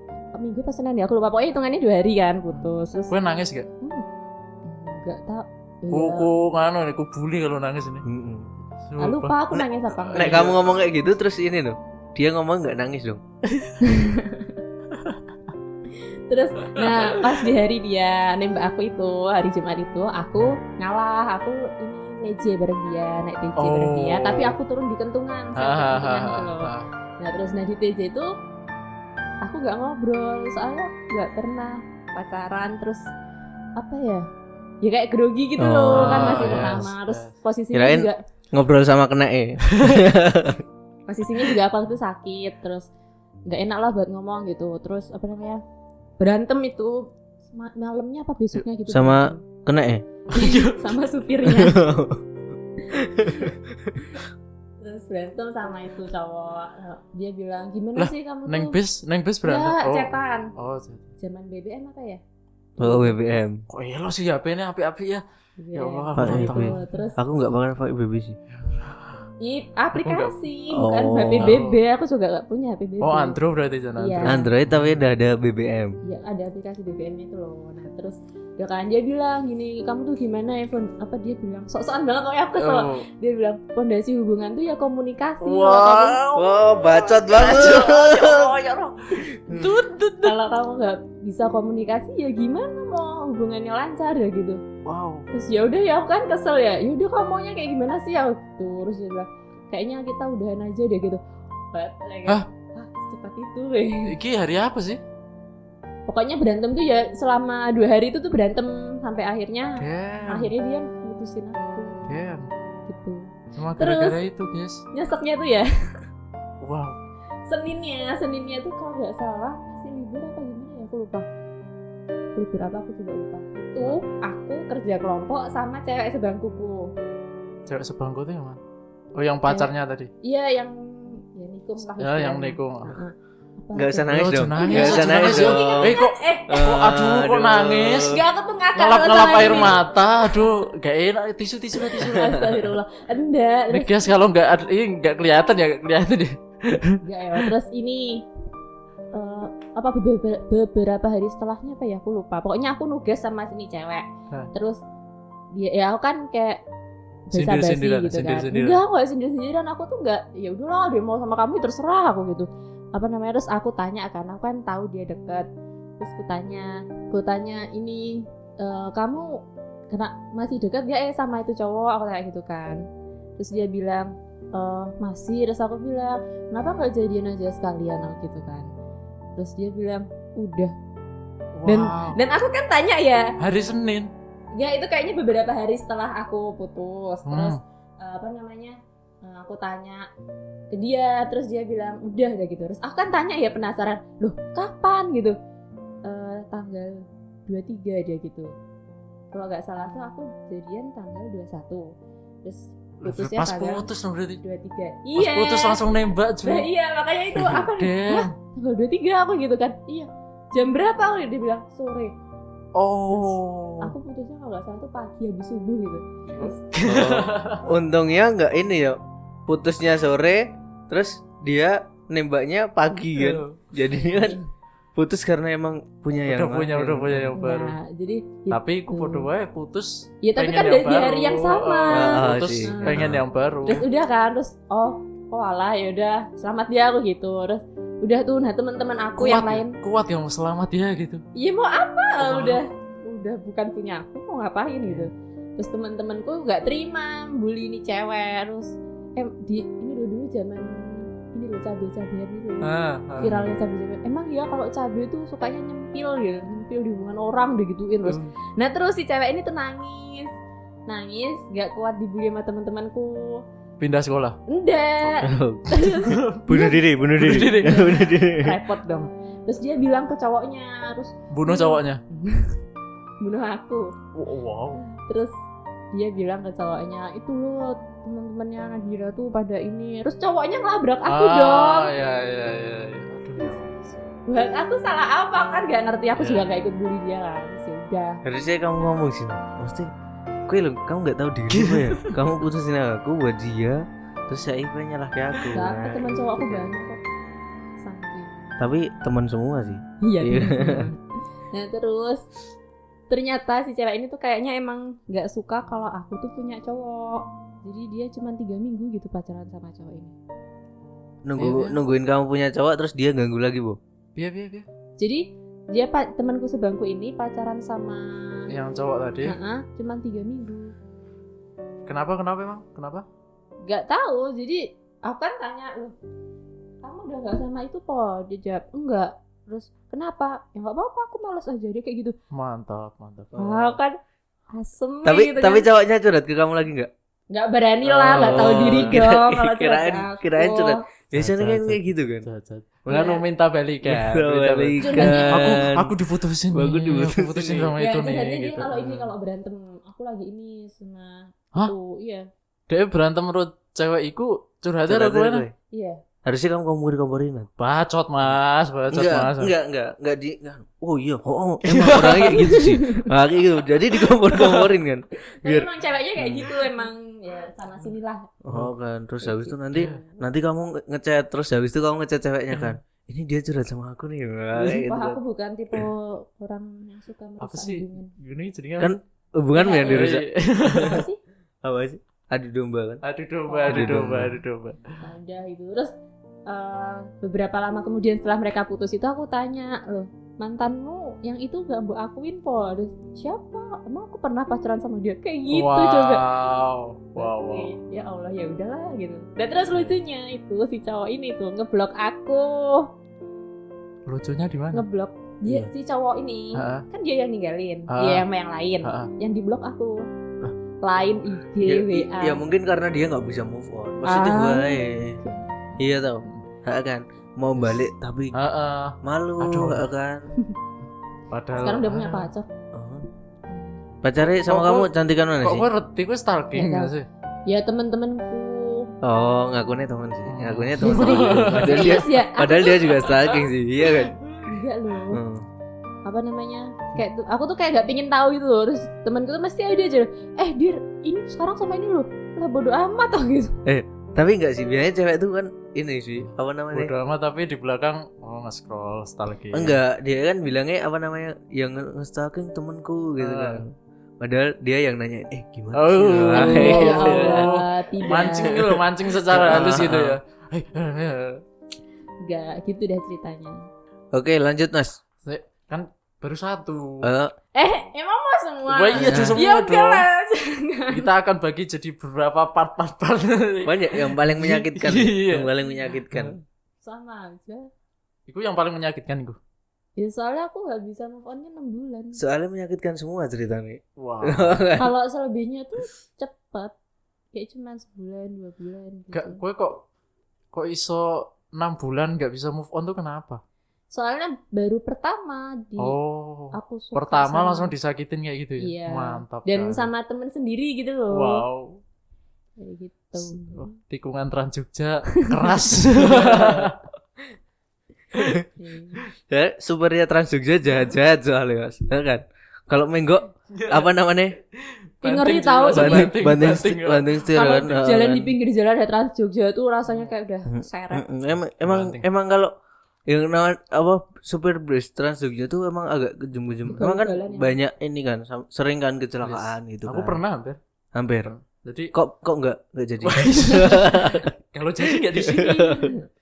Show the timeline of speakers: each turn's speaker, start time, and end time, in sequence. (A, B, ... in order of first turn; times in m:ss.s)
0:00.3-0:03.1 A
0:02.5-0:03.7 B
0:03.8-0:04.0 A
0:04.6-0:06.3 A
0:05.9-0:08.0 B
0:08.0-0:08.5 C
0:08.7-0:09.4 B
0:09.0-0:10.5 A
0:09.5-0:13.2 C
0:10.0-0:10.5 B
0:13.5-0:13.8 B
0:13.8-0:14.6 A
0:14.9-0:15.2 B
0:16.0-0:28.3 A
0:16.6-0:17.4 B
0:23.6-0:24.6 B
0:25.6-0:26.9 B
0:29.4-0:33.1 A
0:33.8-0:34.3 A
0:34.8-0:38.2 A
0:35.6-0:36.8 C
0:35.9-0:37.3 B
0:37.7-0:40.6 C
0:39.8-0:40.0 B
0:41.1-0:42.9 A
0:43.5-0:45.6 A
0:46.2-0:49.4 A
0:48.9-0:50.0 C
0:50.3-0:51.0 B
0:50.3-0:51.8 A
0:51.4-0:52.2 C
0:52.9-0:54.2 C
0:53.2-0:53.5 A
0:54.8-0:58.8 A
0:58.0-1:01.1 B
0:59.4-1:00.5 A
1:01.2-1:02.2 A
1:02.8-1:03.6 C
1:02.8-1:03.1 A
1:03.7-1:05.2 B
1:05.6-1:07.2 A
1:05.7-1:07.1 B
1:06.2-1:08.4 C
1:08.5-1:09.2 B
1:09.4-1:13.4 A
1:09.9-1:10.3 B
1:10.7-1:11.6 C
1:11.4-1:11.8 B
1:13.0-1:15.0 B
1:14.0-1:14.4 A
1:14.2-1:16.0 C
1:16.0-1:26.2 A
1:22.6-1:23.0 B
1:25.4-1:30.4 B
1:26.3-1:28.5 C
1:29.4-1:29.7 C
1:30.2-1:34.6 A
1:34.8-1:35.3 B
1:35.3-1:41.2 A
1:41.7-1:44.1 A
1:44.0-1:45.0 B
1:46.1-1:52.0 A
1:49.8-1:50.5 B
1:52.1-1:52.5 B
1:52.9-1:54.2 A
1:53.5-1:54.8 B
1:54.9-1:55.7 A
1:56.6-1:57.0 B
1:57.5-2:01.3 A
2:02.4-2:06.9 A
2:07.6-2:08.6 B
2:09.2-2:10.1 B
2:09.4-2:09.7 A
2:10.2-2:16.6 A
2:12.0-2:13.0 B
2:13.7-2:18.2 C
2:14.1-2:18.2 B
2:18.0-2:20.4 A
2:18.8-2:22.4 B
2:21.8-2:24.1 A
2:23.7-2:27.5 B
2:27.0-2:28.2 A
2:29.1-2:34.8 A
2:35.5-2:36.6 A
2:37.3-2:45.5 A
2:37.3-2:38.8 B
2:46.0-2:52.8 A
2:53.4-2:58.7 A
2:59.4-3:00.7 A
3:01.6-3:02.2 B
3:01.6-3:03.3 A
3:03.4-3:04.1 B
3:04.5-3:10.0 A
3:07.3-3:07.6 B
3:10.7-3:15.4 A
3:16.0-3:18.5 A
3:19.3-3:21.9 A
3:22.4-3:23.9 A
3:23.0-3:24.4 B
3:24.4-3:32.1 A
3:25.2-3:26.7 B
3:27.4-3:28.3 B
3:32.7-3:33.9 B
3:33.1-3:36.6 A
3:36.3-3:37.6 B
3:36.8-3:44.4 C
3:43.1-3:43.6 B
3:44.0-3:44.4 A
3:45.0-3:47.3 C
3:46.2-3:47.8 B
3:47.3-3:49.3 A
3:48.5-3:53.8 B
3:50.2-3:53.1 A
3:51.9-3:53.2 C
3:53.6-3:59.8 A
3:59.2-4:01.2 B
4:01.4-4:20.3 A
4:02.2-4:02.6 B
4:12.6-4:13.4 B
4:13.2-4:13.5 C
4:20.9-4:23.4 A
4:23.8-4:24.4 B
4:24.5-4:26.8 A
4:25.0-4:25.9 C
4:25.9-4:26.6 B
4:26.4-4:28.6 C
4:27.2-4:28.0 B
4:27.6-4:32.6 A
4:31.3-4:32.0 B
4:33.2-4:33.9 A
4:34.1-4:34.8 B
4:34.8-4:35.3 A
4:35.9-4:41.9 A
4:41.1-4:44.2 B
4:44.3-4:48.2 A
4:46.2-4:46.4 B
4:48.2-4:49.9 C
4:50.5-4:56.7 C
4:51.5-4:52.2 B
4:55.5-4:57.0 A
4:57.8-4:58.3 A
4:58.6-5:00.9 C
5:00.0-5:01.0 A
5:01.5-5:02.3 A
5:03.1-5:10.1 A
5:11.2-5:13.8 C
5:11.4-5:11.8 B
5:14.2-5:14.7 B
5:15.0-5:18.4 A
5:18.5-5:19.4 B
5:19.2-5:20.7 A
5:21.8-5:23.0 B
5:23.6-5:26.0 A
5:26.8-5:32.1 A
5:32.3-5:33.3 B
5:33.3-5:33.8 C
5:33.4-5:34.0 A
5:34.5-5:35.6 A
5:35.0-5:36.9 C
5:37.3-5:40.8 A
5:37.8-5:39.0 B
5:38.3-5:42.3 C
5:41.1-5:48.8 B
5:42.9-5:43.2 A
5:43.8-5:46.0 C
5:44.8-5:45.6 A
5:46.5-5:47.7 C
5:47.8-5:52.3 A
5:48.7-5:49.0 C
5:52.7-5:55.4 B
5:54.9-5:55.5 C
5:55.7-5:56.0 A
5:56.2-5:57.5 C
5:57.6-5:59.5 B
5:58.9-6:06.5 C
6:01.7-6:02.7 B
6:02.5-6:03.0 A
6:04.1-6:04.7 B
6:05.4-6:08.3 A
6:08.4-6:15.2 C
6:09.2-6:10.2 A
6:09.7-6:10.0 B
6:14.6-6:18.1 A
6:17.4-6:19.0 B
6:18.8-6:21.0 C
6:19.5-6:21.2 A
6:19.8-6:21.0 B
6:21.6-6:23.0 C
6:23.0-6:25.0 B
6:23.5-6:24.0 A
6:23.7-6:24.4 C
6:25.0-6:25.9 A
6:26.5-6:36.2 A
6:35.5-6:37.7 B
6:37.2-6:42.9 A
6:44.0-6:44.8 B
6:44.7-6:50.0 A
6:46.5-6:46.9 B
6:47.9-6:48.2 B
6:48.8-6:49.1 B
6:50.8-6:52.4 A
6:51.6-6:55.2 C
6:54.0-6:55.4 A
6:55.7-6:56.4 B
6:55.8-6:58.4 C
6:57.6-6:59.9 B
6:59.0-7:00.3 C
7:01.3-7:02.3 B
7:01.6-7:02.5 A
7:02.7-7:03.0 C
7:03.5-7:03.9 A
7:04.0-7:05.7 C
7:04.2-7:04.9 B
7:05.4-7:07.1 B
7:06.5-7:06.9 A
7:07.5-7:08.9 A
7:09.0-7:14.2 C
7:10.2-7:12.0 B
7:10.8-7:13.1 A
7:13.9-7:14.5 B
7:14.4-7:15.2 A
7:15.1-7:15.4 C
7:16.0-7:23.6 A
7:23.6-7:26.9 C
7:26.2-7:29.8 B
7:29.5-7:37.5 C
7:33.2-7:33.6 B
7:35.7-7:41.4 B
7:36.3-7:38.7 A
7:38.2-7:40.2 C
7:42.2-7:43.6 A
7:44.1-7:45.0 C
7:45.2-7:47.1 B
7:47.0-7:47.3 C
7:47.5-7:51.1 A
7:48.7-7:50.1 B
7:48.9-7:49.4 C
7:50.9-7:55.5 B
7:53.6-7:56.4 C
7:56.8-7:57.7 A
7:58.3-7:59.4 B
8:00.0-8:02.2 A
8:02.1-8:04.9 C
8:04.0-8:04.6 B
8:04.8-8:06.7 A
8:07.3-8:09.4 A
8:09.1-8:09.8 B
8:10.5-8:13.4 B
8:13.9-8:16.0 A
8:15.8-8:19.9 B
8:16.5-8:17.7 A
8:18.6-8:21.4 A
8:21.1-8:21.8 B
8:22.6-8:23.7 A
8:23.2-8:26.8 B
8:25.2-8:25.8 A
8:26.0-8:26.7 C
8:28.1-8:28.4 C
8:28.6-8:29.0 A
8:29.2-8:34.3 C
8:33.5-8:33.9 B
8:35.0-8:37.2 B
8:35.0-8:36.1 A
8:35.7-8:38.3 C
8:37.3-8:41.0 A
8:39.9-8:40.1 B
8:40.5-8:42.5 C
8:41.6-8:42.0 B
8:43.1-8:50.2 C
8:46.7-8:47.5 A
8:49.2-8:50.6 B
8:50.9-8:51.3 C
8:51.2-8:51.9 B
8:51.9-8:54.3 C
8:53.0-8:55.7 B
8:54.9-8:55.9 C
8:55.4-8:56.0 A